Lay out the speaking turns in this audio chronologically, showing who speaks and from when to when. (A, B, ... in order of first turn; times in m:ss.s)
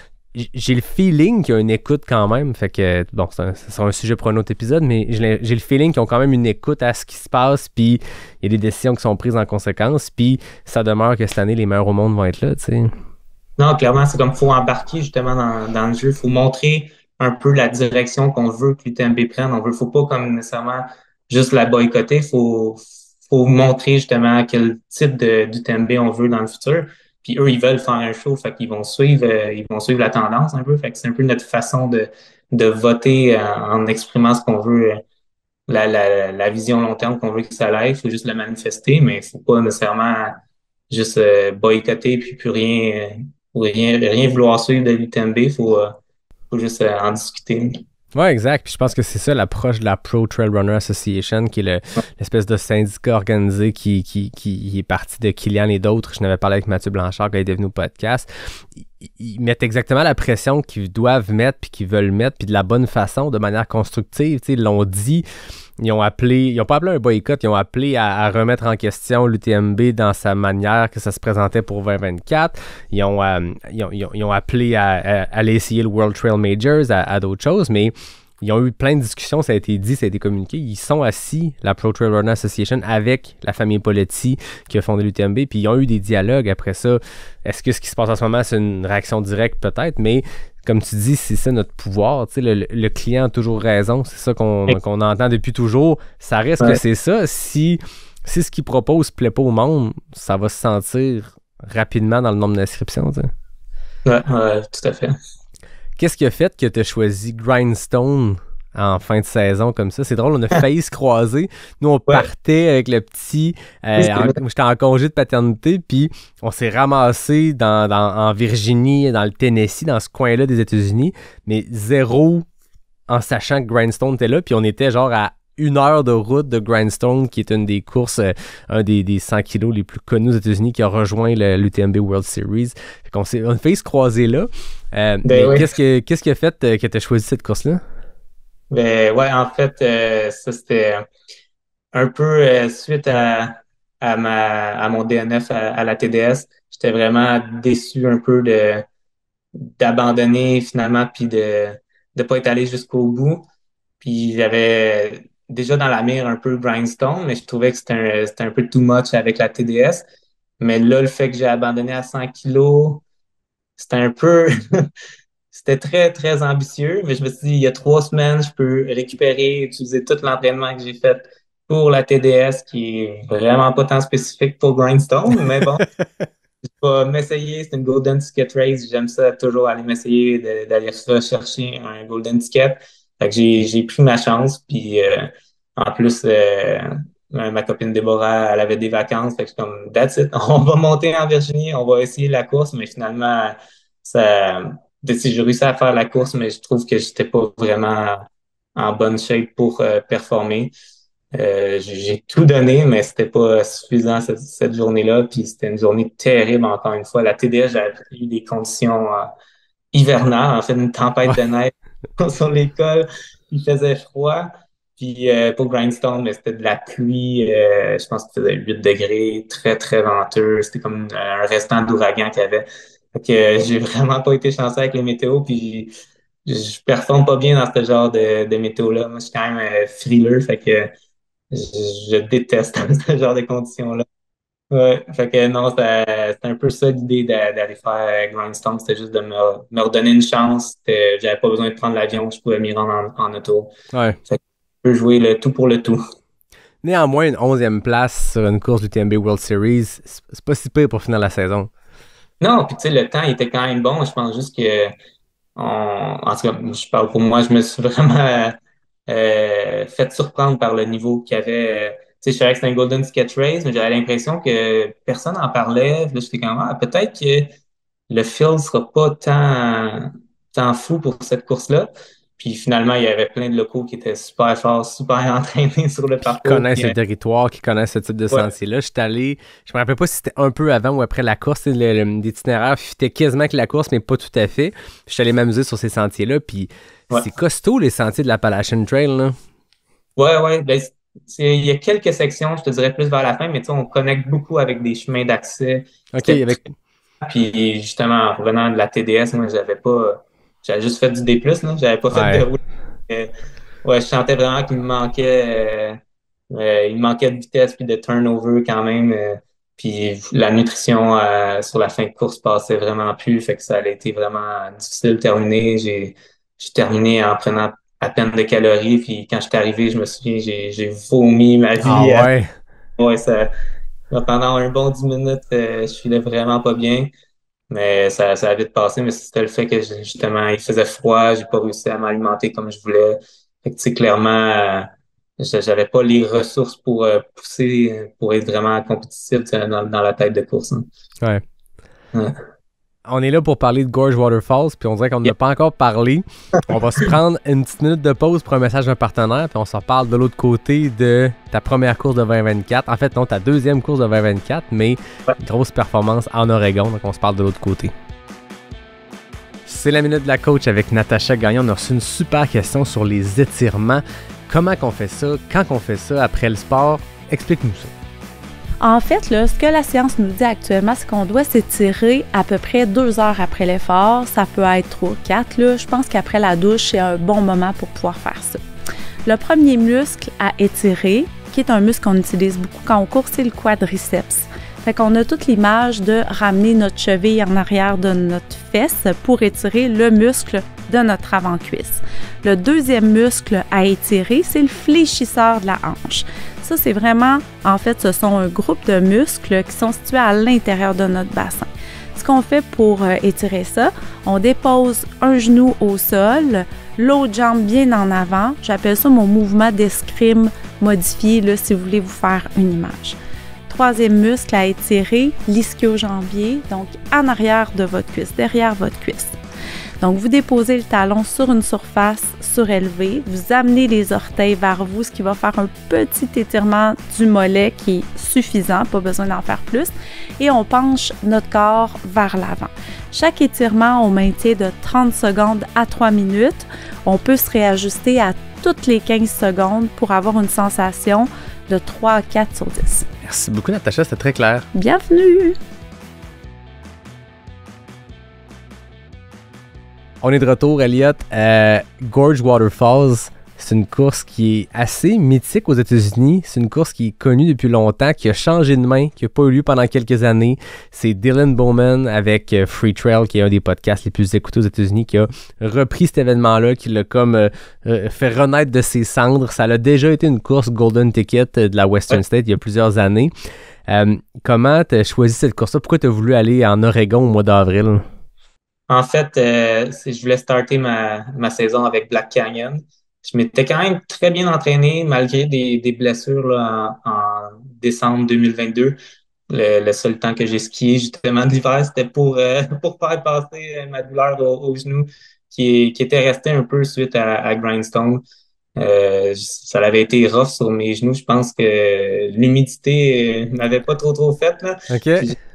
0:00.3-0:12.9 A
0:13.6-0:35.0 B
0:35.7-0:46.0 B
0:46.5-0:47.8 B
0:48.1-0:58.3 A
0:59.0-1:05.2 A
1:05.8-1:43.3 A
1:44.0-1:45.2 B
1:46.0-2:02.4 A
1:54.0-1:54.4 B
2:03.1-2:17.8 A
2:15.2-2:15.7 B
2:18.7-2:21.1 B
2:21.9-2:28.8 B
2:29.6-2:33.4 B
2:34.0-2:40.0 B
2:40.6-2:43.0 B
2:43.8-2:44.5 B
2:45.5-2:55.8 B
2:56.8-3:20.7 B
3:21.3-3:29.3 B
3:29.9-3:45.9 B
3:46.4-3:50.9 B
3:51.5-3:54.0 B
3:54.7-4:03.7 B
4:03.9-4:04.2 A
4:04.3-4:06.0 B
4:06.8-4:11.7 A
4:12.4-4:14.9 B
4:15.6-4:27.5 B
4:28.1-4:36.9 B
4:36.3-4:49.4 A
4:50.2-4:56.6 B
4:56.1-4:56.7 A
4:57.2-5:03.3 B
5:02.1-5:02.4 A
5:03.8-5:06.0 B
5:06.5-5:22.3 B
5:21.8-5:22.5 A
5:23.0-5:23.5 B
5:24.1-5:27.1 B
5:27.7-5:40.9 B
5:42.1-5:42.4 B
5:43.0-5:57.9 A
5:59.6-6:07.9 A
6:08.8-6:18.6 C
6:19.2-6:53.2 C
6:53.7-6:59.3 C
7:00.0-7:23.1 C
7:23.2-7:24.7 A
7:24.7-7:25.6 C
7:30.2-7:53.3 A
7:53.9-7:58.0 A
7:58.9-8:09.0 B
8:09.5-8:18.2 B
8:18.8-8:25.4 B
8:24.9-8:25.4 A